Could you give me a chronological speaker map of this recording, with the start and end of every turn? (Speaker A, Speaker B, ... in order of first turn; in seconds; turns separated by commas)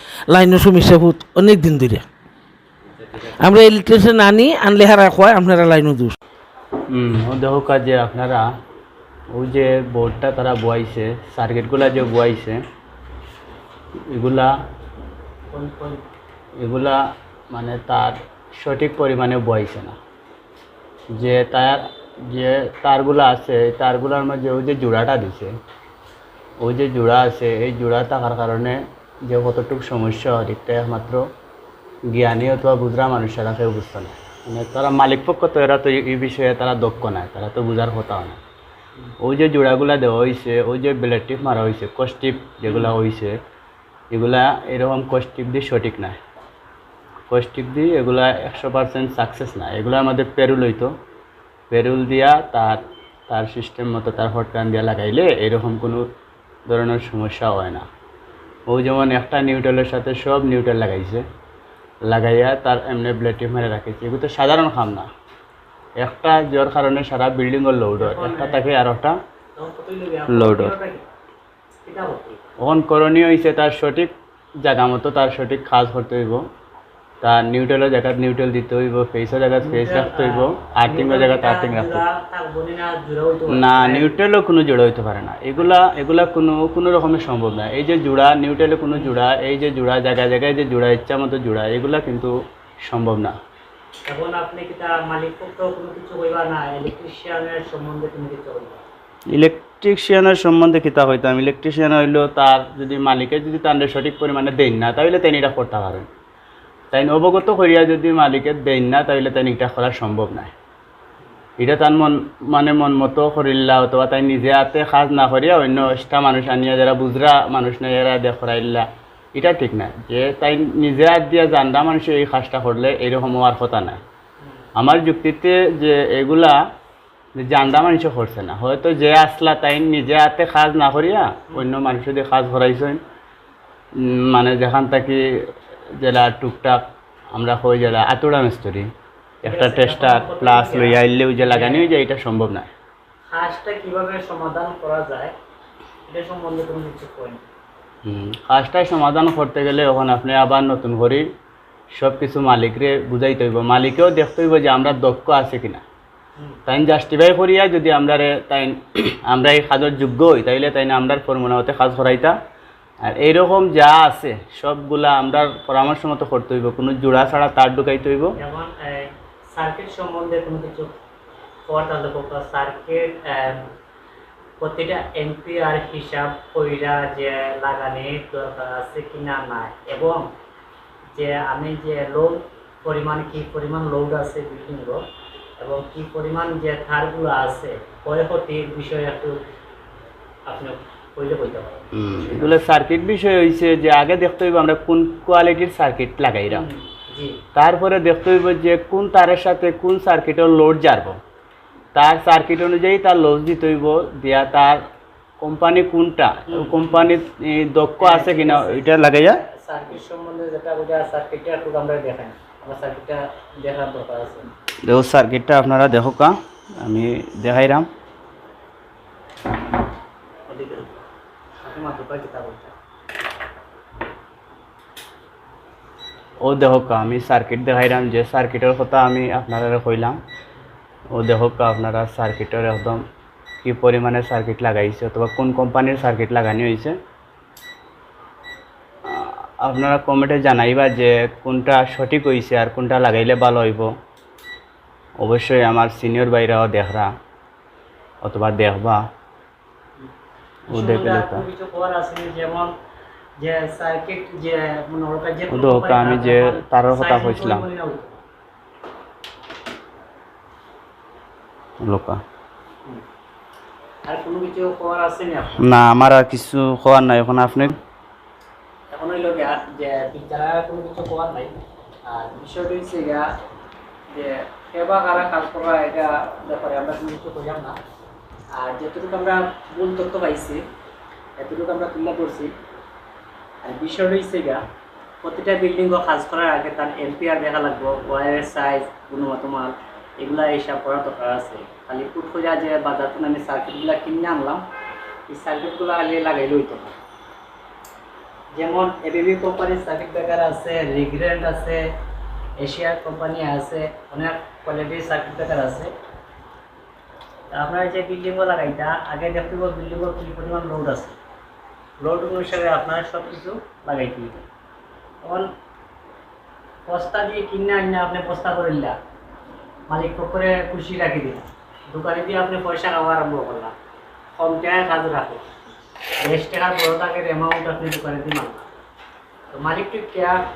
Speaker A: 0.3-2.0, Speaker A: 3.4-6.2, Speaker B: 6.9-8.5, Speaker B: 9.3-12.6, Speaker B: 14.1-14.5, Speaker C: 15.5-16.0, Speaker B: 16.6-17.0, Speaker B: 17.5-19.9, Speaker B: 21.1-25.5, Speaker B: 26.6-31.2, Speaker B: 32.1-38.4, Speaker B: 39.2-43.4, Speaker C: 42.7-42.9, Speaker B: 44.1-46.2, Speaker B: 47.3-50.9, Speaker B: 51.7-56.0, Speaker B: 56.7-57.9, Speaker B: 58.7-61.2, Speaker B: 62.1-65.1, Speaker B: 66.0-69.2, Speaker C: 68.0-68.7, Speaker C: 69.5-71.1, Speaker B: 70.3-70.7, Speaker C: 71.8-72.4, Speaker B: 72.6-76.4, Speaker B: 77.2-82.0, Speaker C: 79.6-84.2, Speaker B: 83.5-92.3, Speaker B: 92.8-93.3, Speaker C: 94.1-98.8, Speaker B: 99.3-106.1, Speaker B: 106.9-110.5, Speaker B: 111.6-124.0, Speaker B: 124.8-126.6, Speaker B: 127.4-133.0, Speaker B: 134.0-135.4, Speaker B: 136.0-136.8, Speaker B: 137.3-138.9, Speaker C: 139.4-141.9, Speaker B: 139.4-142.7, Speaker C: 143.3-145.3, Speaker C: 146.1-147.4, Speaker B: 148.0-151.2, Speaker B: 152.0-155.8, Speaker B: 156.7-162.3, Speaker B: 163.0-168.3, Speaker C: 168.4-170.9, Speaker C: 171.7-173.7, Speaker C: 174.6-180.3, Speaker C: 181.1-185.0, Speaker C: 185.6-189.4, Speaker C: 190.5-192.6, Speaker B: 191.9-196.7, Speaker C: 196.5-197.4, Speaker B: 197.5-201.2, Speaker B: 201.9-204.8, Speaker B: 205.4-209.4, Speaker C: 206.5-206.9, Speaker C: 208.0-214.5, Speaker B: 214.8-217.9, Speaker C: 220.5-221.0, Speaker C: 221.6-222.7, Speaker B: 226.4-230.2, Speaker B: 231.1-233.0, Speaker B: 233.6-236.9, Speaker B: 239.1-243.9, Speaker B: 245.2-247.1, Speaker B: 248.2-249.0, Speaker C: 250.7-252.7, Speaker B: 250.7-251.4, Speaker C: 253.4-258.2, Speaker B: 255.5-257.6, Speaker B: 261.8-262.2, Speaker C: 264.1-265.6, Speaker B: 265.6-267.8, Speaker C: 268.9-271.5, Speaker C: 272.1-273.2, Speaker C: 274.1-277.8, Speaker C: 278.6-280.6, Speaker C: 281.4-282.5, Speaker C: 283.6-284.6, Speaker C: 285.2-294.6, Speaker C: 295.3-296.9, Speaker C: 298.5-301.8, Speaker C: 302.6-305.9, Speaker C: 307.5-311.1, Speaker C: 312.0-314.4, Speaker C: 315.2-315.5, Speaker C: 316.9-318.9, Speaker C: 319.9-323.7, Speaker C: 324.4-325.4, Speaker C: 326.2-328.7, Speaker C: 329.5-330.4